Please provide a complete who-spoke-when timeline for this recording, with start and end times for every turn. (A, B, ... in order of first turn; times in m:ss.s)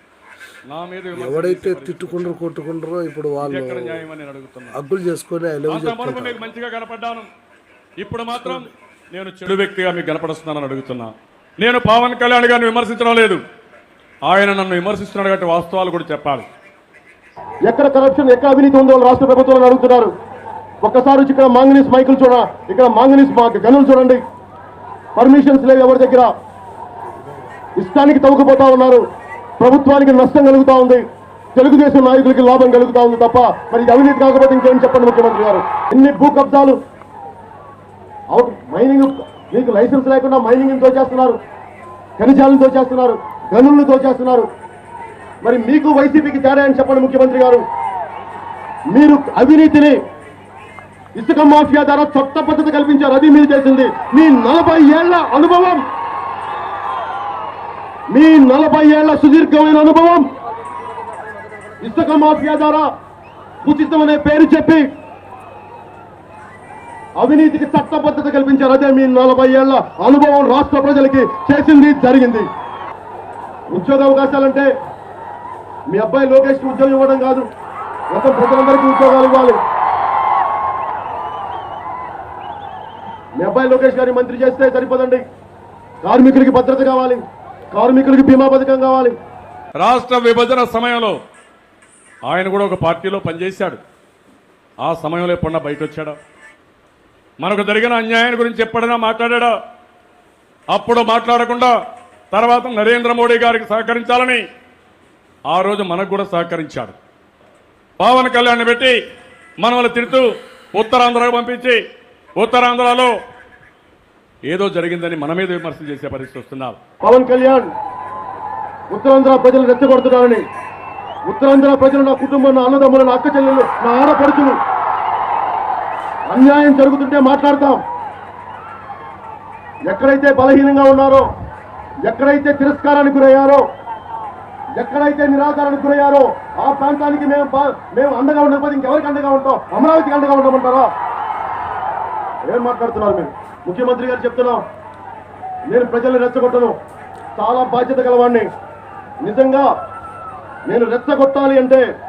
0:00.7-0:02.4 A
0:01.2-0:04.0 B
0:03.4-0:04.8 A
0:04.7-0:06.4 B
0:05.7-0:07.3 A
0:08.0-0:13.4 A
0:08.4-0:08.7 B
0:14.3-0:16.5 A
0:17.6-0:20.1 C
0:20.8-0:24.2 C
0:25.2-0:26.3 C
0:27.8-0:29.0 C
0:29.6-0:31.0 C
0:31.6-0:36.8 C
0:38.3-0:41.4 C
0:42.2-0:44.5 C
0:45.4-0:47.6 C
0:48.9-0:50.0 C
0:51.2-0:55.8 C
0:58.1-1:00.3 C
1:01.8-1:02.9 C
1:03.6-1:04.9 C
1:07.2-1:12.5 C
1:13.7-1:14.7 C
1:15.9-1:17.5 C
1:18.1-1:19.6 C
1:23.4-1:25.2 C
1:26.0-1:27.2 C
1:27.7-1:29.2 C
1:29.8-1:31.2 A
1:32.3-1:33.8 A
1:34.8-1:36.2 A
1:37.4-1:39.6 A
1:40.7-1:41.7 A
1:42.3-1:44.4 A
1:45.5-1:47.0 A
1:48.0-1:49.0 A
1:49.6-1:51.8 A
1:52.4-1:53.1 A
1:54.5-1:56.8 A
1:57.0-1:57.7 C
1:58.9-2:00.4 C
2:01.3-2:04.6 C
2:06.3-2:07.8 C
2:09.9-2:11.3 C
2:12.1-2:13.6 C
2:14.8-2:20.9 C
2:22.4-2:24.6 C
2:25.7-2:26.8 C
2:27.4-2:28.5 C
2:29.2-2:29.7 C
2:30.7-2:31.8 C